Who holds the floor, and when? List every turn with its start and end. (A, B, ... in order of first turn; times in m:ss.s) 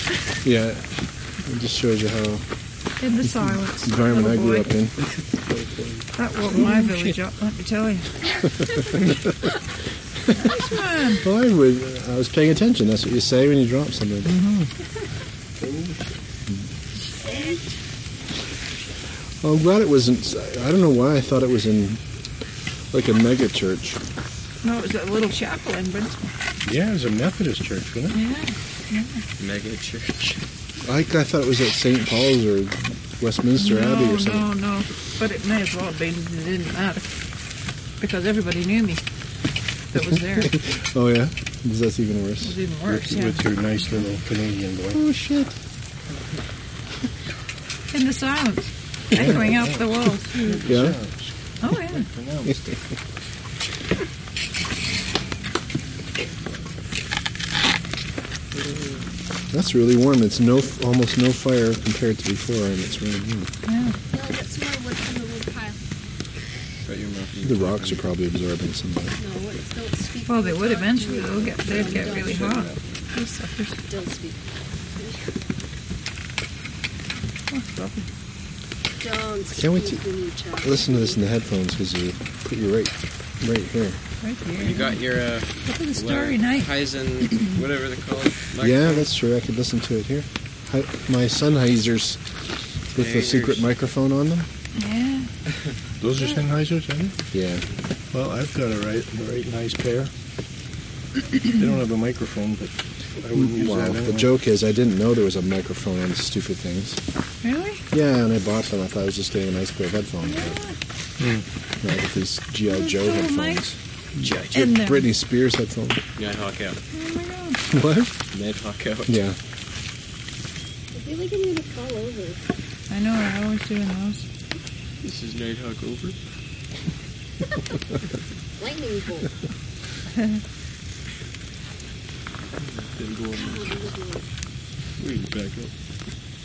0:00.4-0:00.8 A
0:01.4-0:02.4 A
0:03.0-0:04.7 B
0:03.8-0:05.0 A
0:05.5-0:06.0 C
0:06.2-0:08.2 B
0:06.5-0:07.1 A
0:10.3-0:10.6 A
0:10.3-0:11.3 B
0:11.2-0:14.4 A
0:14.3-0:14.7 B
0:17.3-0:17.5 D
0:19.4-0:22.0 A
0:22.9-0:24.0 A
0:24.6-0:26.2 B
0:26.6-0:28.2 E
0:28.1-0:29.2 B
0:29.4-0:30.4 C
0:30.8-0:34.5 A
0:33.6-0:37.3 B
0:38.0-0:39.0 B
0:39.9-0:40.6 B
0:40.0-0:42.6 A
0:42.4-0:43.4 B
0:42.9-0:45.0 E
0:44.9-0:45.5 A
0:47.9-0:50.6 B
0:49.1-0:49.5 A
0:49.2-0:49.8 E
0:50.3-0:52.7 E
0:50.6-0:51.0 A
0:51.6-0:52.1 B
0:52.5-0:52.7 A
0:58.6-0:59.0 C
0:59.5-1:03.5 A
1:03.7-1:04.0 B
1:04.1-1:05.8 D
1:06.8-1:08.0 C
1:07.4-1:09.2 A
1:09.2-1:12.6 D
1:10.3-1:13.8 B
1:11.7-1:12.9 C
1:13.9-1:14.4 D
1:15.0-1:15.4 D
1:17.5-1:18.1 B
1:19.0-1:21.2 D
1:19.5-1:20.0 A
1:20.6-1:24.0 A
1:24.2-1:25.0 B
1:24.6-1:29.1 C
1:25.6-1:26.8 B
1:28.6-1:32.2 A
1:32.9-1:34.5 A
1:33.0-1:33.7 C
1:34.8-1:35.3 B
1:36.0-1:37.2 E
1:37.3-1:37.6 A
1:38.1-1:40.1 E
1:41.5-1:44.3 E
1:43.3-1:47.0 A
1:47.4-1:47.8 B
1:47.9-1:50.6 A
1:50.2-1:50.8 B
1:51.2-1:51.4 E
1:51.8-1:56.0 A
1:52.7-1:53.6 B
1:54.5-1:55.1 B
1:56.2-1:56.8 C
1:56.9-1:57.6 B
1:57.7-1:58.2 A
1:58.3-1:59.2 C
1:59.1-1:59.4 A
2:00.9-2:02.4 D
2:02.9-2:04.3 B
2:05.0-2:06.2 C
2:08.6-2:09.3 D
2:10.1-2:10.4 B
2:12.6-2:13.8 C
2:13.4-2:14.3 D
2:15.0-2:15.7 C